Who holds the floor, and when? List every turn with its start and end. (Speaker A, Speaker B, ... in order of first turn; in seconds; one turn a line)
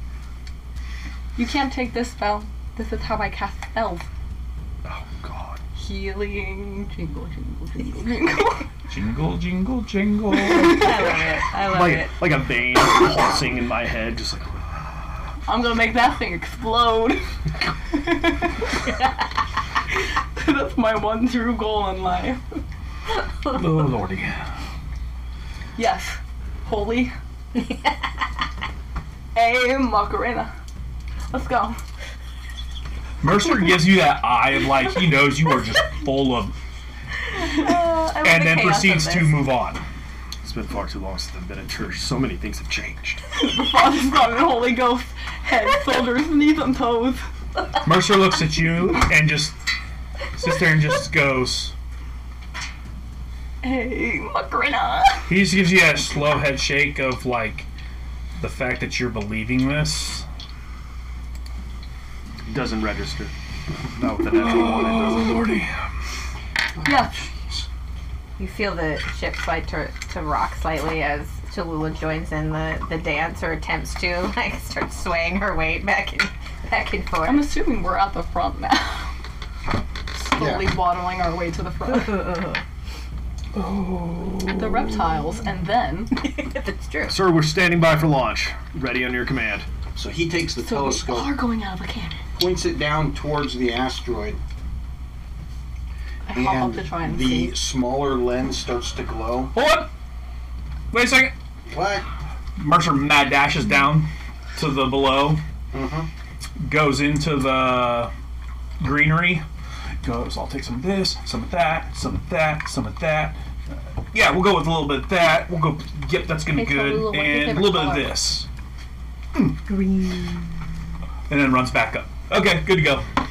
Speaker A: 1.4-4.1
Speaker B: 4.8-5.6
Speaker A: 5.8-8.7
Speaker C: 8.9-11.0
Speaker D: 10.3-12.2
Speaker A: 10.4-11.2
Speaker B: 11.7-14.7
Speaker A: 15.5-17.2
Speaker A: 17.9-18.9
Speaker A: 20.4-22.4
Speaker C: 23.4-24.5
Speaker A: 25.8-27.1
Speaker A: 29.4-30.5
Speaker A: 31.3-31.8
Speaker C: 33.2-36.5
Speaker D: 37.3-39.5
Speaker C: 38.2-39.8
Speaker B: 40.4-43.2
Speaker A: 43.3-47.2
Speaker C: 47.8-49.6
Speaker C: 50.3-51.7
Speaker A: 53.6-55.3
Speaker C: 55.3-57.7
Speaker C: 58.4-60.3
Speaker B: 62.5-65.5
Speaker C: 64.0-65.9
Speaker E: 66.8-67.7
Speaker A: 66.8-67.2
Speaker D: 68.4-77.5
Speaker A: 77.2-79.1
Speaker A: 80.2-82.5
Speaker E: 80.3-80.7
Speaker D: 82.2-82.6
Speaker C: 83.6-85.0
Speaker A: 84.6-86.1
Speaker D: 86.2-87.2
Speaker B: 87.1-89.7
Speaker E: 90.0-91.4
Speaker A: 90.6-92.2
Speaker E: 92.3-94.4
Speaker A: 96.3-97.5
Speaker E: 96.3-99.5
Speaker C: 99.5-99.9
Speaker C: 100.9-101.3
Speaker E: 101.7-102.1
Speaker C: 102.6-105.4
Speaker E: 105.7-106.1
Speaker C: 106.6-108.1
Speaker C: 108.8-109.5
Speaker C: 110.0-113.4
Speaker C: 114.1-118.5
Speaker A: 116.5-118.2
Speaker D: 119.7-120.5
Speaker C: 121.3-123.1